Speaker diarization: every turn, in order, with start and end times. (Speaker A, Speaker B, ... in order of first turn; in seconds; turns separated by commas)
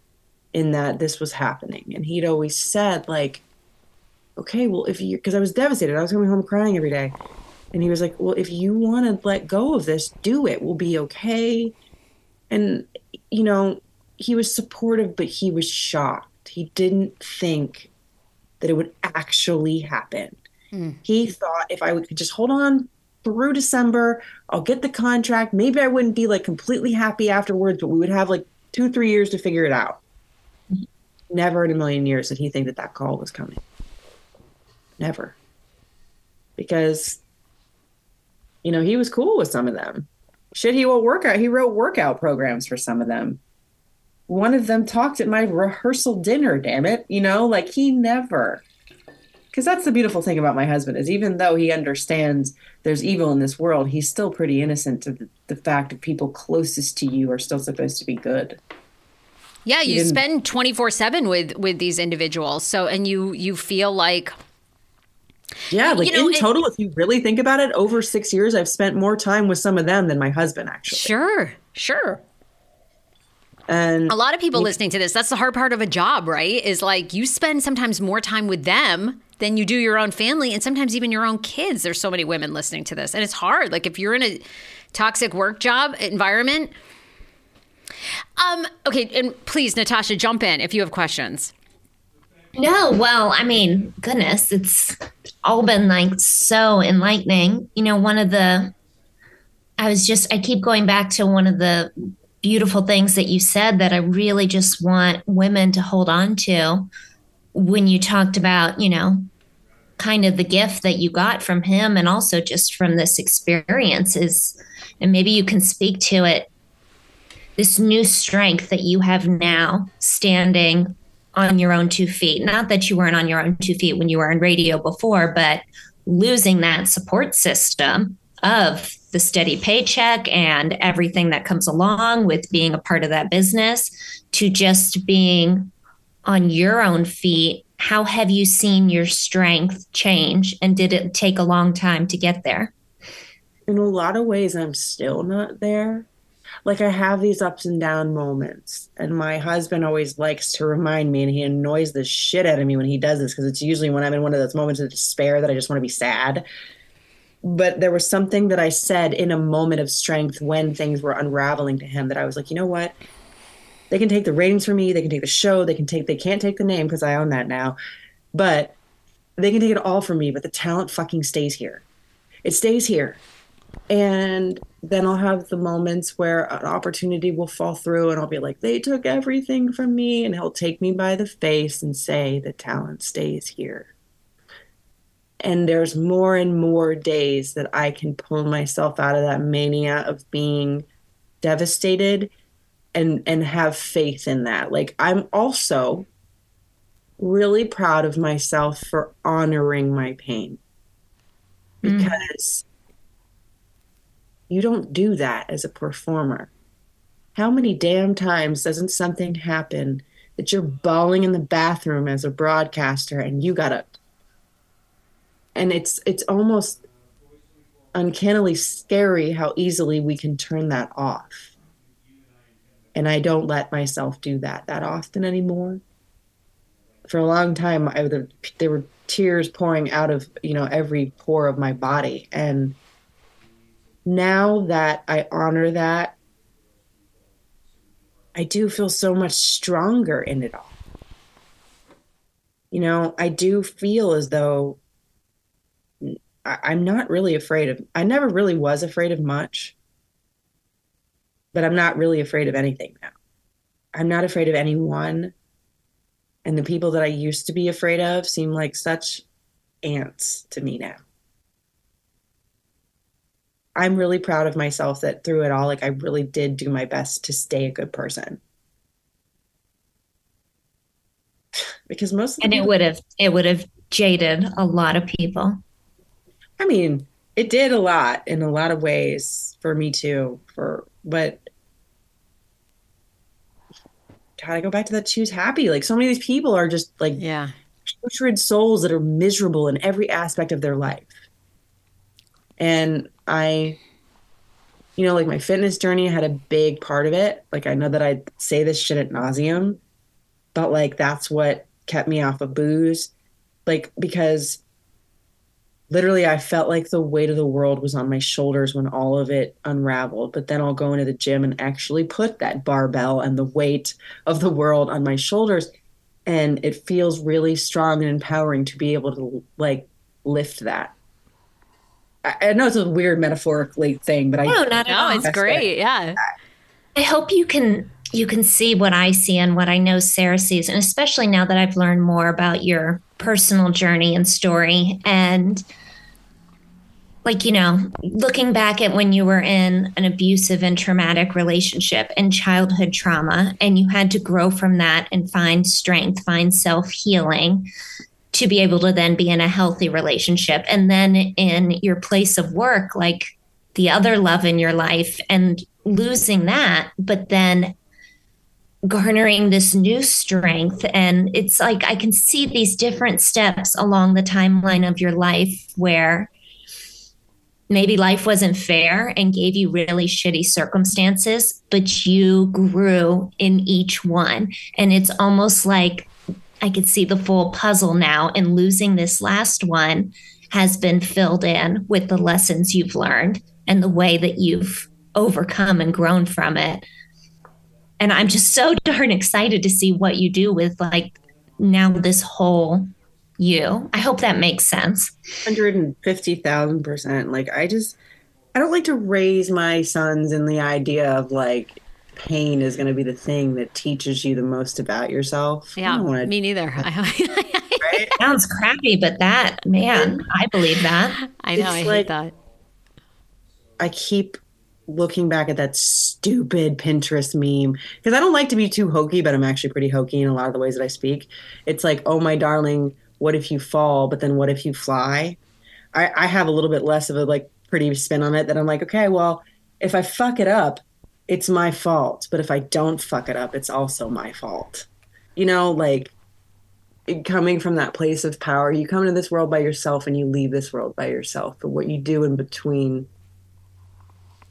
Speaker A: 0.5-3.4, Speaker A: 4.4-7.2, Speaker A: 7.7-11.7, Speaker A: 12.5-17.9, Speaker A: 18.6-20.4, Speaker B: 20.7-21.0, Speaker A: 21.1-30.0, Speaker A: 31.3-33.6, Speaker A: 35.0-35.4, Speaker A: 36.6-37.2, Speaker A: 38.6-43.4, Speaker A: 44.3-48.6, Speaker A: 49.5-58.6, Speaker B: 59.7-64.3, Speaker A: 59.9-60.2, Speaker A: 65.7-71.1, Speaker B: 65.9-66.5, Speaker B: 70.9-72.2, Speaker A: 73.7-74.7, Speaker B: 74.1-84.4, Speaker B: 84.9-86.7, Speaker B: 88.4-91.5, Speaker C: 92.6-98.7, Speaker C: 99.8-106.9, Speaker C: 107.5-109.3, Speaker C: 110.0-116.5, Speaker C: 117.6-135.7, Speaker C: 136.2-142.7, Speaker A: 143.7-146.1, Speaker A: 146.7-156.4, Speaker A: 157.4-162.9, Speaker A: 163.9-167.8, Speaker A: 168.3-168.8, Speaker A: 169.4-171.8, Speaker A: 172.4-173.2, Speaker A: 173.9-183.9, Speaker A: 185.4-190.9, Speaker A: 191.4-192.3, Speaker A: 192.9-196.1, Speaker A: 197.2-200.6, Speaker A: 201.8-202.7, Speaker C: 201.8-202.1, Speaker A: 204.5-206.5, Speaker A: 207.4-213.9, Speaker A: 215.6-216.8, Speaker A: 217.9-221.5, Speaker A: 222.9-225.8, Speaker A: 227.1-232.8, Speaker A: 234.1-236.2, Speaker A: 238.3-240.7, Speaker A: 242.7-244.8, Speaker A: 246.0-249.8, Speaker A: 251.5-253.1, Speaker A: 253.9-255.3, Speaker A: 256.4-259.2, Speaker A: 259.8-261.0, Speaker A: 263.8-268.4, Speaker A: 271.9-272.7, Speaker C: 272.4-275.6, Speaker A: 276.6-281.5, Speaker A: 284.4-287.2, Speaker B: 287.2-287.5, Speaker A: 287.9-291.1, Speaker A: 292.6-293.8, Speaker A: 295.0-299.8, Speaker A: 300.6-303.1, Speaker A: 303.7-304.6, Speaker A: 305.9-315.7, Speaker A: 316.3-320.9, Speaker A: 322.2-324.6, Speaker C: 324.4-325.3, Speaker B: 324.9-326.2, Speaker A: 325.2-325.7, Speaker C: 327.0-335.6, Speaker C: 337.2-347.7, Speaker C: 348.3-357.7, Speaker C: 358.9-366.3, Speaker C: 367.7-376.1, Speaker C: 376.6-386.9, Speaker C: 388.0-395.1, Speaker A: 395.4-398.0, Speaker A: 398.5-406.3, Speaker B: 405.8-408.1, Speaker A: 407.8-408.1, Speaker C: 408.2-411.2, Speaker B: 411.4-412.3, Speaker A: 411.6-412.1, Speaker A: 413.8-425.4, Speaker A: 425.9-436.1, Speaker A: 437.1-443.1